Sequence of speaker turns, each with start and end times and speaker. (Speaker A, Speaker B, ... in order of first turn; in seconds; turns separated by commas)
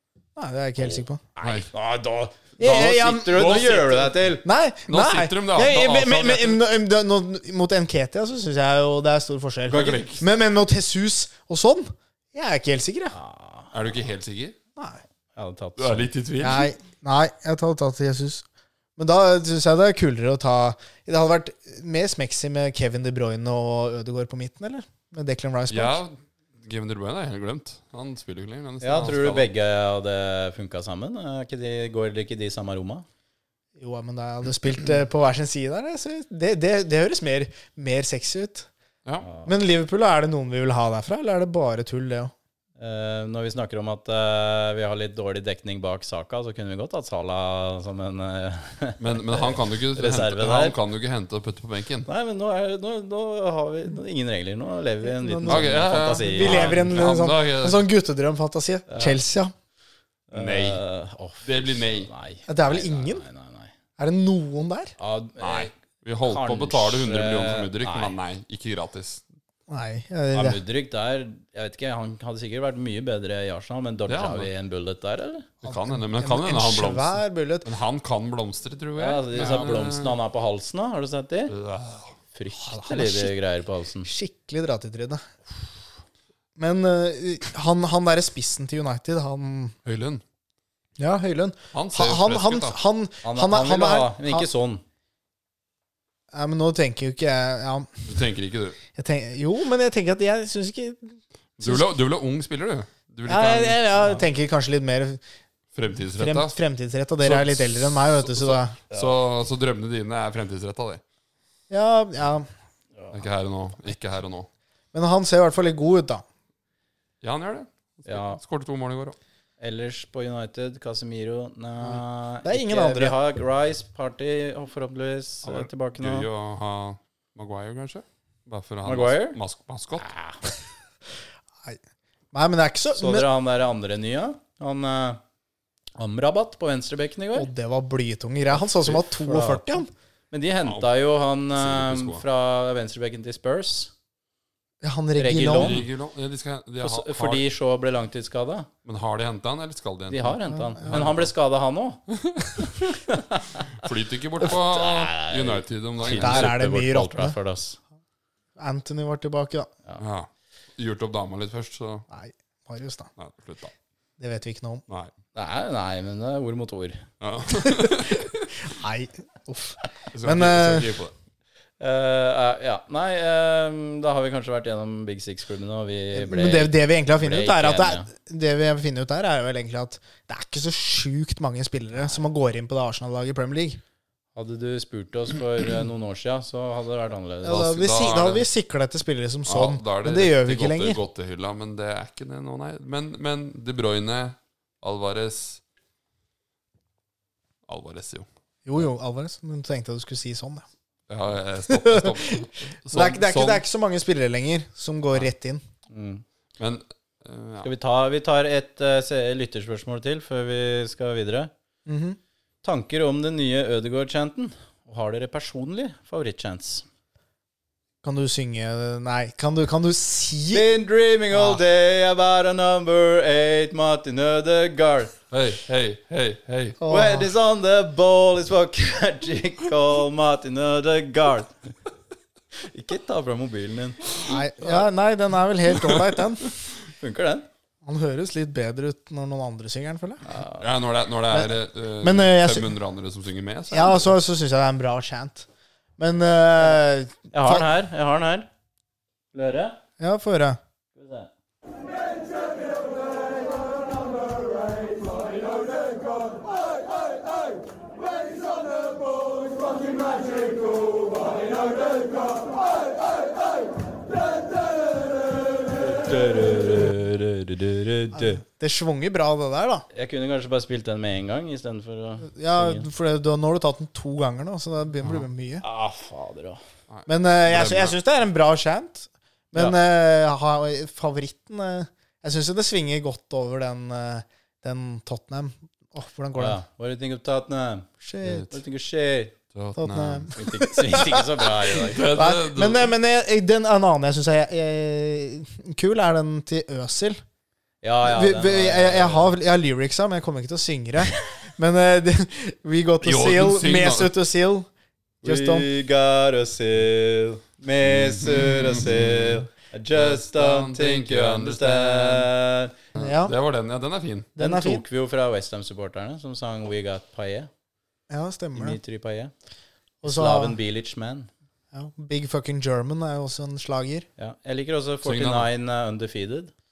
Speaker A: 0.3-1.2, Speaker B: 0.8-4.4, Speaker C: 1.4-1.7, Speaker A: 2.6-3.8, Speaker C: 3.3-4.0, Speaker A: 4.4-13.1, Speaker C: 4.9-6.6, Speaker C: 9.7-10.2, Speaker B: 13.1-13.7, Speaker C: 13.7-14.6, Speaker A: 14.8-15.0, Speaker B: 15.3-16.1, Speaker C: 15.8-16.7, Speaker A: 16.4-18.4, Speaker A: 19.0-26.0, Speaker C: 25.7-29.5, Speaker B: 28.8-33.0, Speaker A: 33.8-38.7, Speaker B: 39.2-39.5, Speaker A: 39.4-42.3, Speaker B: 42.8-50.8, Speaker C: 49.0-52.1, Speaker B: 52.1-57.0, Speaker A: 55.0-59.5, Speaker C: 55.4-57.8, Speaker B: 58.9-59.2, Speaker B: 60.3-63.7, Speaker C: 60.3-60.8, Speaker C: 61.4-62.1, Speaker A: 62.5-63.2, Speaker A: 64.0-64.9, Speaker B: 65.0-65.7, Speaker C: 65.4-69.2, Speaker B: 66.2-68.2, Speaker A: 69.7-70.6, Speaker B: 70.3-75.5, Speaker C: 74.1-74.5, Speaker C: 75.6-80.2, Speaker A: 75.6-77.7, Speaker B: 79.0-81.5, Speaker C: 81.5-82.1, Speaker B: 82.3-84.1, Speaker A: 82.6-83.3, Speaker A: 84.0-85.2, Speaker A: 86.5-89.7, Speaker C: 89.8-90.2, Speaker A: 91.0-94.5, Speaker C: 91.7-92.8, Speaker B: 93.2-94.8, Speaker A: 96.3-97.9, Speaker C: 98.1-98.8, Speaker A: 99.0-101.8, Speaker C: 101.6-103.8, Speaker A: 103.3-105.2, Speaker C: 105.7-106.5, Speaker A: 106.1-108.8, Speaker C: 107.2-111.0, Speaker A: 111.7-112.5, Speaker C: 113.1-114.5, Speaker A: 114.9-116.2, Speaker C: 117.2-119.2, Speaker B: 118.0-118.4, Speaker B: 119.6-126.3, Speaker A: 121.8-123.2, Speaker C: 125.4-130.1, Speaker B: 128.8-129.4, Speaker B: 130.0-130.4, Speaker A: 132.3-133.3, Speaker B: 133.0-135.2, Speaker B: 136.0-137.5, Speaker A: 137.3-139.9, Speaker B: 138.6-143.9, Speaker C: 140.6-142.2, Speaker A: 144.8-145.8, Speaker B: 145.2-145.8, Speaker C: 145.5-147.5, Speaker B: 146.8-148.7, Speaker C: 148.8-151.3, Speaker B: 150.1-152.0, Speaker A: 150.5-151.0, Speaker C: 152.1-152.8, Speaker B: 152.9-153.6, Speaker C: 153.7-156.5, Speaker B: 154.4-157.8, Speaker A: 156.0-157.4, Speaker A: 158.6-159.7, Speaker C: 160.0-162.1, Speaker A: 162.1-163.1, Speaker C: 163.2-163.7, Speaker A: 164.2-164.8, Speaker B: 165.3-167.1, Speaker C: 167.2-168.5, Speaker A: 167.6-170.9, Speaker C: 170.1-171.1, Speaker B: 171.8-178.1, Speaker A: 176.1-183.8, Speaker B: 184.3-187.6, Speaker A: 187.4-191.0, Speaker C: 187.5-188.5, Speaker C: 189.4-195.6, Speaker C: 197.7-198.3, Speaker A: 198.7-200.6, Speaker C: 201.1-203.6, Speaker A: 201.7-205.6, Speaker B: 205.9-206.2, Speaker C: 206.6-207.7, Speaker B: 207.6-211.5, Speaker A: 211.8-212.2, Speaker B: 212.6-216.8, Speaker A: 218.0-220.7, Speaker B: 220.5-225.1, Speaker C: 225.3-226.8, Speaker A: 226.8-227.3, Speaker B: 226.9-231.6, Speaker B: 232.6-234.0, Speaker A: 234.2-236.5, Speaker B: 237.0-237.5, Speaker A: 237.8-240.2, Speaker B: 240.2-240.6, Speaker C: 240.6-244.1, Speaker A: 241.3-242.7, Speaker A: 243.7-245.5, Speaker A: 246.0-247.7, Speaker B: 247.3-248.5, Speaker B: 249.3-249.8, Speaker A: 250.0-250.6, Speaker B: 250.9-251.3, Speaker B: 265.7-268.4, Speaker A: 268.1-269.8, Speaker B: 269.9-272.9, Speaker A: 272.2-275.6, Speaker B: 275.6-276.6, Speaker C: 276.9-277.9, Speaker A: 277.1-286.6, Speaker B: 286.4-287.9, Speaker A: 288.0-288.5, Speaker C: 288.2-288.5, Speaker B: 288.5-289.3, Speaker C: 289.5-290.3, Speaker A: 289.8-291.5, Speaker B: 290.3-292.1, Speaker C: 291.8-292.9, Speaker A: 292.1-297.2, Speaker B: 297.8-299.3, Speaker A: 298.0-304.7, Speaker C: 303.0-304.1, Speaker A: 305.2-305.7, Speaker B: 305.2-312.8, Speaker C: 307.9-312.3, Speaker C: 312.9-314.3, Speaker A: 313.0-313.3, Speaker A: 314.4-314.8, Speaker B: 314.4-317.5, Speaker A: 318.1-318.8, Speaker B: 318.5-319.3, Speaker A: 320.0-320.6, Speaker B: 320.0-321.3, Speaker A: 321.7-324.1, Speaker B: 324.2-326.5, Speaker C: 325.0-325.5